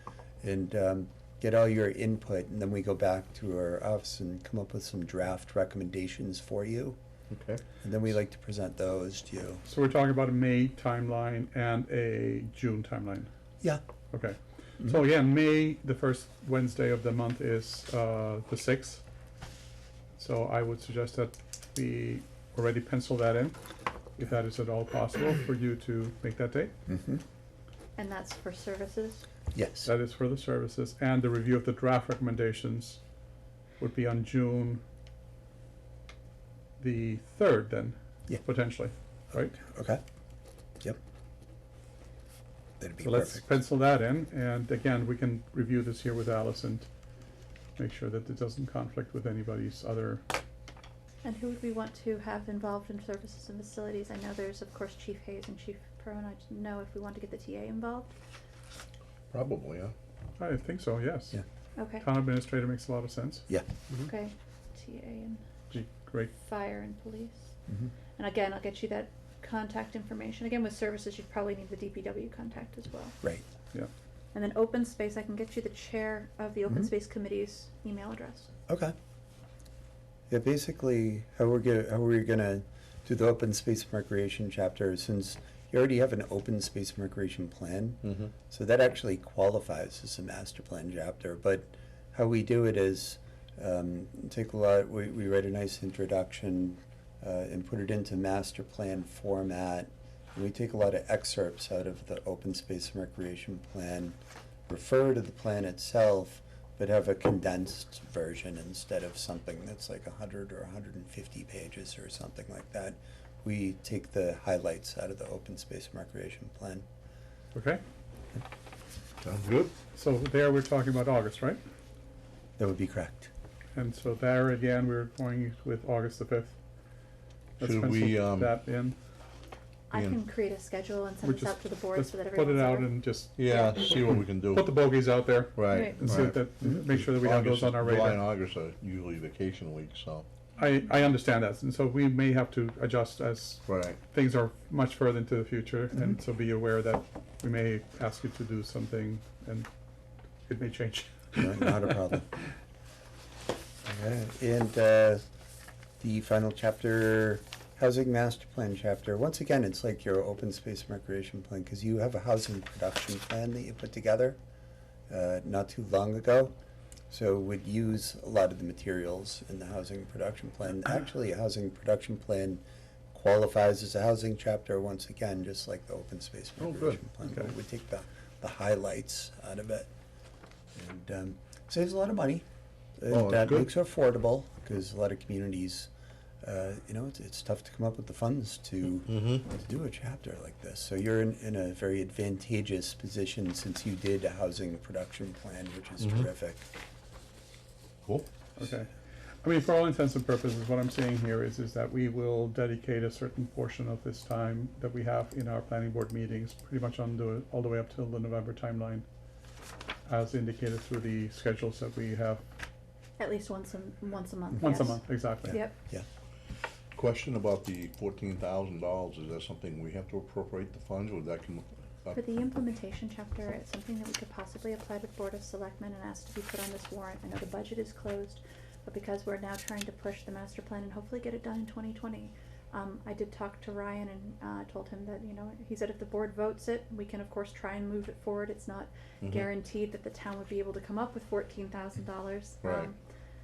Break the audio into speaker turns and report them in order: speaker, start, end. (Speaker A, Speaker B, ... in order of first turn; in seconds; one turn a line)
Speaker A: 0.4-7.0
Speaker B: 7.3-7.6
Speaker A: 7.8-9.6
Speaker C: 9.6-13.3
Speaker C: 14.1-19.0
Speaker C: 20.2-23.6
Speaker C: 24.2-26.7
Speaker A: 26.9-27.2
Speaker D: 28.0-29.2
Speaker A: 29.5-29.9
Speaker C: 29.8-33.0
Speaker C: 33.8-34.8
Speaker C: 36.8-39.6
Speaker A: 39.5-40.0
Speaker A: 42.8-43.5
Speaker C: 43.0-46.9
Speaker C: 47.8-50.2
Speaker D: 51.2-58.1
Speaker B: 59.3-59.9
Speaker C: 60.4-61.4
Speaker D: 61.8-62.0
Speaker C: 62.0-63.4
Speaker D: 64.0-65.5
Speaker C: 65.7-66.3
Speaker D: 66.4-67.5
Speaker D: 68.2-73.2
Speaker D: 74.3-78.5
Speaker A: 78.7-78.9
Speaker A: 80.3-116.8
Speaker B: 88.0-88.3
Speaker C: 117.5-117.8
Speaker B: 119.2-119.7
Speaker C: 119.9-121.6
Speaker A: 122.6-123.3
Speaker C: 123.8-126.6
Speaker C: 127.6-128.9
Speaker B: 127.6-128.5
Speaker D: 129.9-133.8
Speaker B: 129.9-130.2
Speaker C: 131.2-133.4
Speaker B: 133.4-134.7
Speaker C: 134.5-138.2
Speaker B: 135.6-140.2
Speaker D: 135.7-136.0
Speaker C: 140.6-149.7
Speaker B: 143.7-144.0
Speaker C: 150.5-151.8
Speaker A: 151.3-152.3
Speaker A: 153.8-155.2
Speaker A: 156.0-164.4
Speaker A: 165.1-166.5
Speaker A: 167.1-172.6
Speaker A: 173.1-179.9
Speaker B: 176.6-177.0
Speaker A: 180.7-182.4
Speaker A: 183.0-185.9
Speaker B: 183.1-183.7
Speaker A: 186.4-196.7
Speaker B: 189.1-189.4
Speaker C: 198.6-198.9
Speaker C: 199.4-209.0
Speaker C: 210.1-212.4
Speaker D: 213.2-215.8
Speaker C: 214.6-215.7
Speaker A: 215.4-216.1
Speaker B: 216.9-222.2
Speaker D: 222.1-242.9
Speaker B: 239.2-239.5
Speaker B: 242.6-242.9